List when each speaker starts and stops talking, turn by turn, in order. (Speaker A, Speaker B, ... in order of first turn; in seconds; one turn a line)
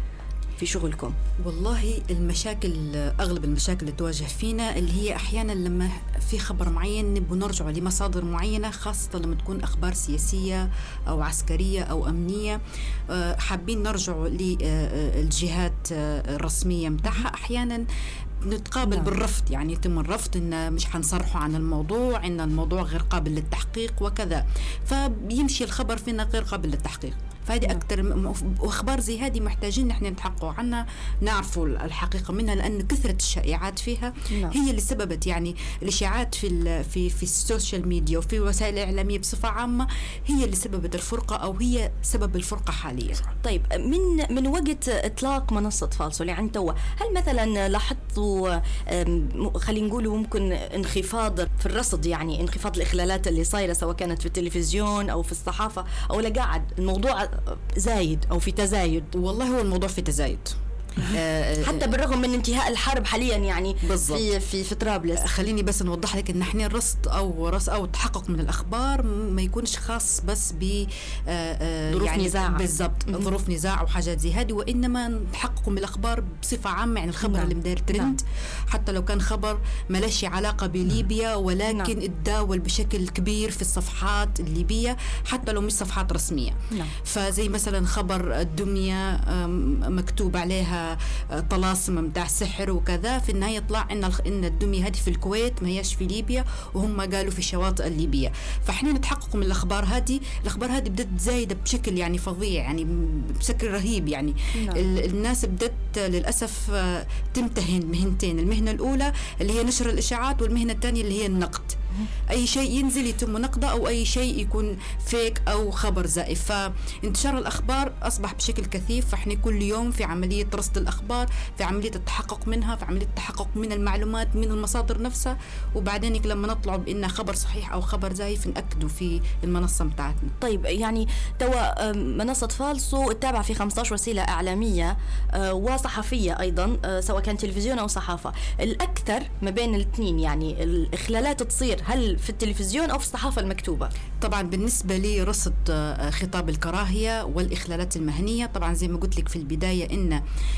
Speaker A: 0.6-1.1
Speaker B: 1.4-12.6
Speaker B: 13.1-17.8
Speaker B: 18.4-43.2
Speaker A: 18.8-19.1
Speaker A: 34.3-34.5
Speaker A: 43.4-59.1
Speaker B: 59.1-61.9
Speaker A: 61.6-65.2
Speaker B: 63.8-64.2
Speaker B: 65.2-111.8
Speaker A: 71.9-73.3
Speaker A: 77.2-78.1
Speaker A: 81.7-81.9
Speaker A: 104.5-104.8
Speaker B: 112.3-130.3
Speaker A: 130.4-143.9
Speaker B: 144.2-150.2